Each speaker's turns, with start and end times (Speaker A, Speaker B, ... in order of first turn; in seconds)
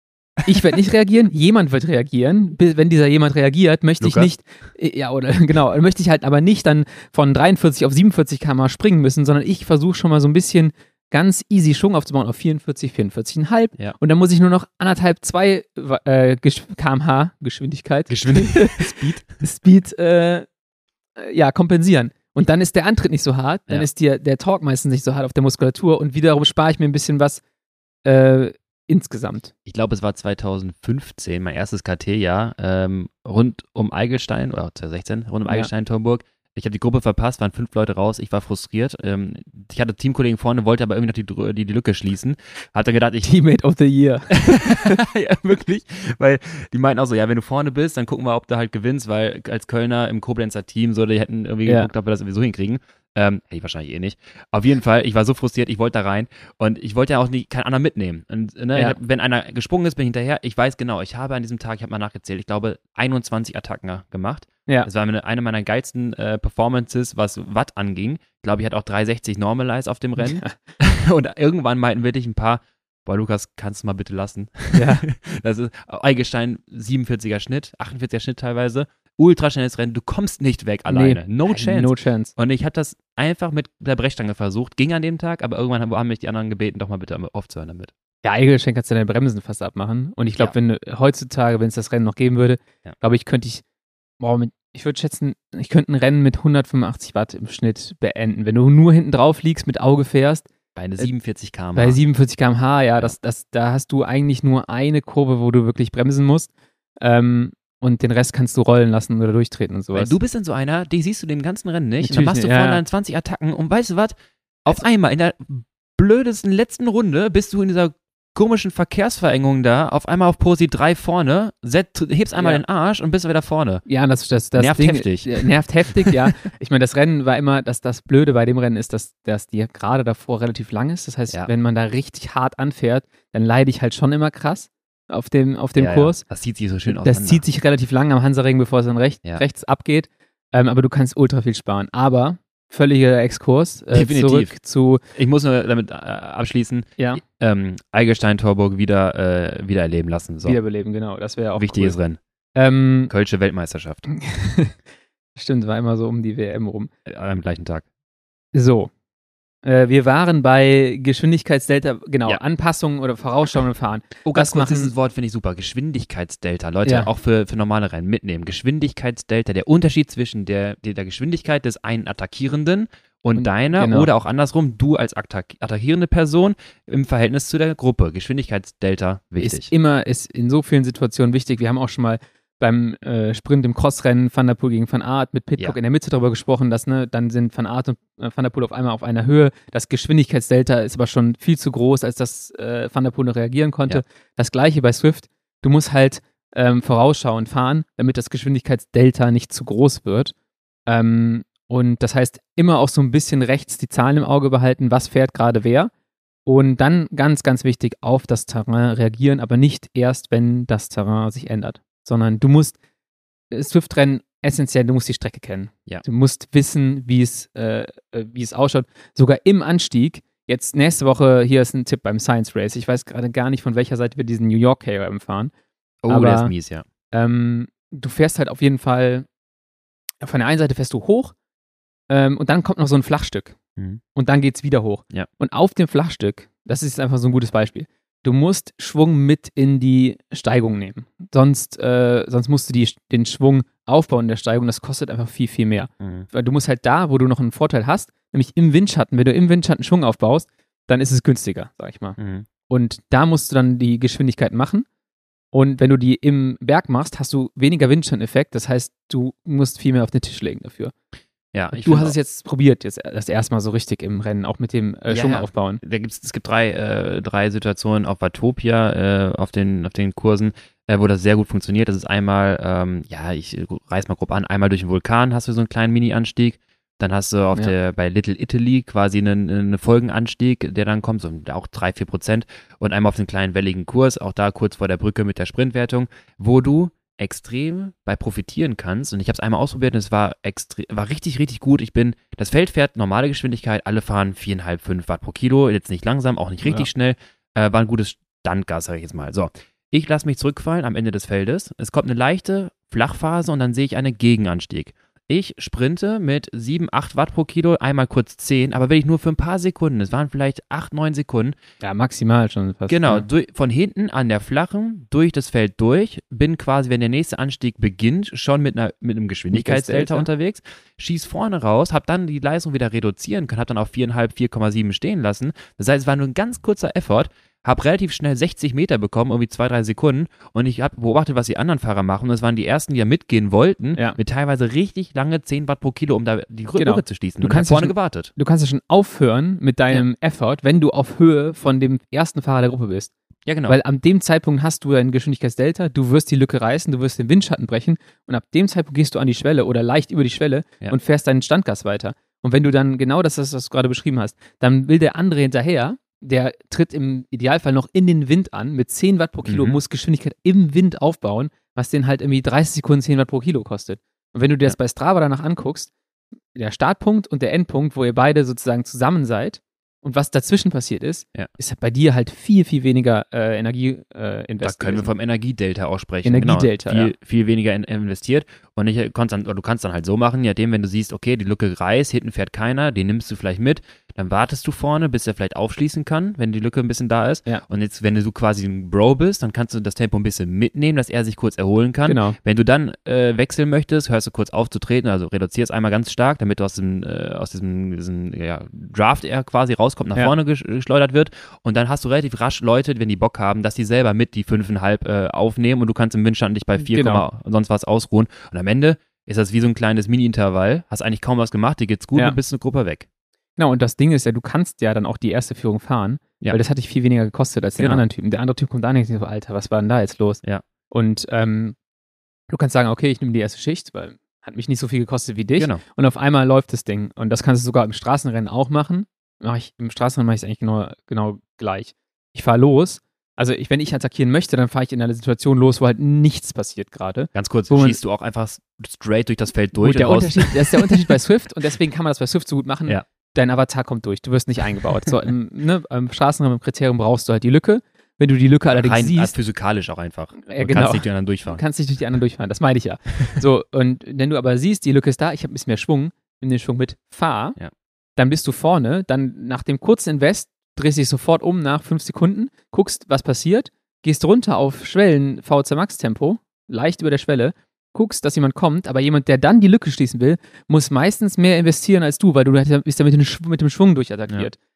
Speaker A: 0.5-20.5, 21.2-27.4, 28.0-29.5, 43.2-45.0, 70.2-70.5, 74.7-75.0, 80.9-82.3, 88.2-93.6, 94.2-100.5, 101.8-106.5, 107.0-110.1, 112.0-112.8, 122.3-122.6, 123.9-136.2, 136.9-145.0, 150.4-151.9, 152.6-153.1, 154.1-154.8, 155.3-156.9, 158.5-158.9, 159.6-164.9, 166.8-167.1, 173.3-174.1, 179.4-200.3, 200.9-205.9, 206.4-212.8, 213.5-225.5, 226.1-226.5, 227.1-229.3, 230.2-231.3, 232.1-233.6, 234.1-252.2, 252.7-254.8, 255.5-260.9, 261.7-265.8, 311.8-313.2, 319.5-320.3, 336.8-343.1, 343.7-365.9, 366.5-375.1, 376.2-377.1, 392.1-392.4, 406.8-407.2, 413.6-421.8, 422.5-438.0, 439.8-449.3, 450.4-457.6, 458.2-474.6
Speaker B: 4.0-4.3, 18.1-19.3, 29.6-43.3, 44.3-87.9, 100.8-102.0, 109.9-123.8, 124.5-126.3, 135.8-137.4, 143.9-144.5, 145.1-150.6, 151.6-152.2, 153.1-154.1, 157.1-157.8, 164.2-179.7, 226.0-226.8, 246.0-246.3, 252.2-252.5, 261.5-262.1, 265.1-311.5, 312.9-338.3, 343.4-343.8, 359.4-359.8, 374.6-413.1, 437.3-441.1, 448.7-451.6